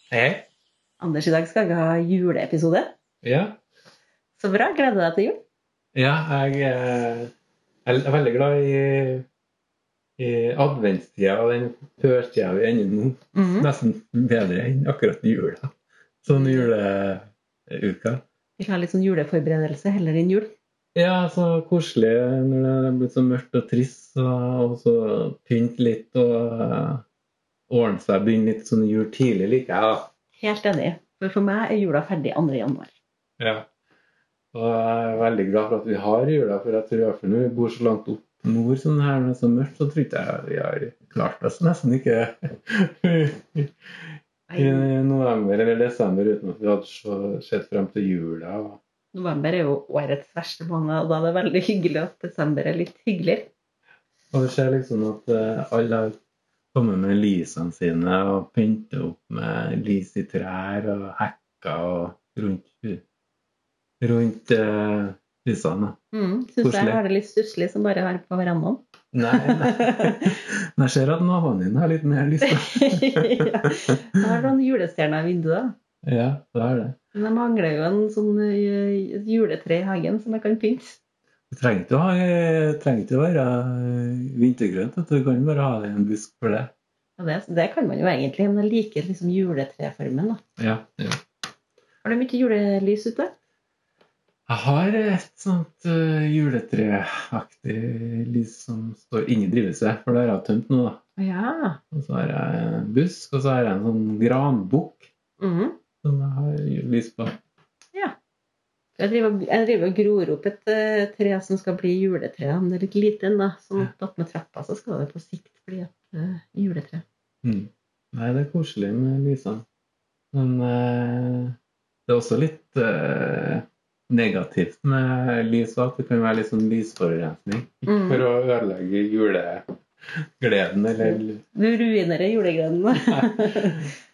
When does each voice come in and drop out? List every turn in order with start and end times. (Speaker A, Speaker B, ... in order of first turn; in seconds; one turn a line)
Speaker A: 0.1-0.5
Speaker B: 1.0-2.9
Speaker A: 3.2-3.6
Speaker B: 4.4-5.4
Speaker A: 5.9-7.3
Speaker A: 7.8-9.2
Speaker A: 10.2-15.7
Speaker B: 13.3-13.7
Speaker A: 16.2-18.2
Speaker B: 16.3-16.7
Speaker B: 18.6-20.5
Speaker A: 20.9-27.0
Speaker A: 27.7-30.1
Speaker B: 30.4-32.9
Speaker A: 33.4-33.7
Speaker A: 34.5-43.7
Speaker B: 44.5-44.9
Speaker A: 44.5-48.8
Speaker B: 49.1-53.5
Speaker A: 54.3-56.2
Speaker A: 56.7-63.0
Speaker A: 64.0-66.0
Speaker B: 66.1-70.3
Speaker A: 66.6-67.0
Speaker A: 69.1-74.3
Speaker B: 72.4-75.7
Speaker A: 76.0-77.0
Speaker B: 77.1-81.0
Speaker A: 81.5-86.7
Speaker B: 87.2-90.4
Speaker A: 90.6-91.2
Speaker B: 92.0-93.3
Speaker A: 94.5-101.0
Speaker B: 101.2-101.8
Speaker A: 101.9-105.0
Speaker B: 105.4-105.8
Speaker A: 106.0-107.3
Speaker B: 109.0-117.0
Speaker A: 117.4-119.6
Speaker A: 120.3-131.4
Speaker B: 127.9-128.2
Speaker B: 131.0-133.9
Speaker A: 133.1-133.9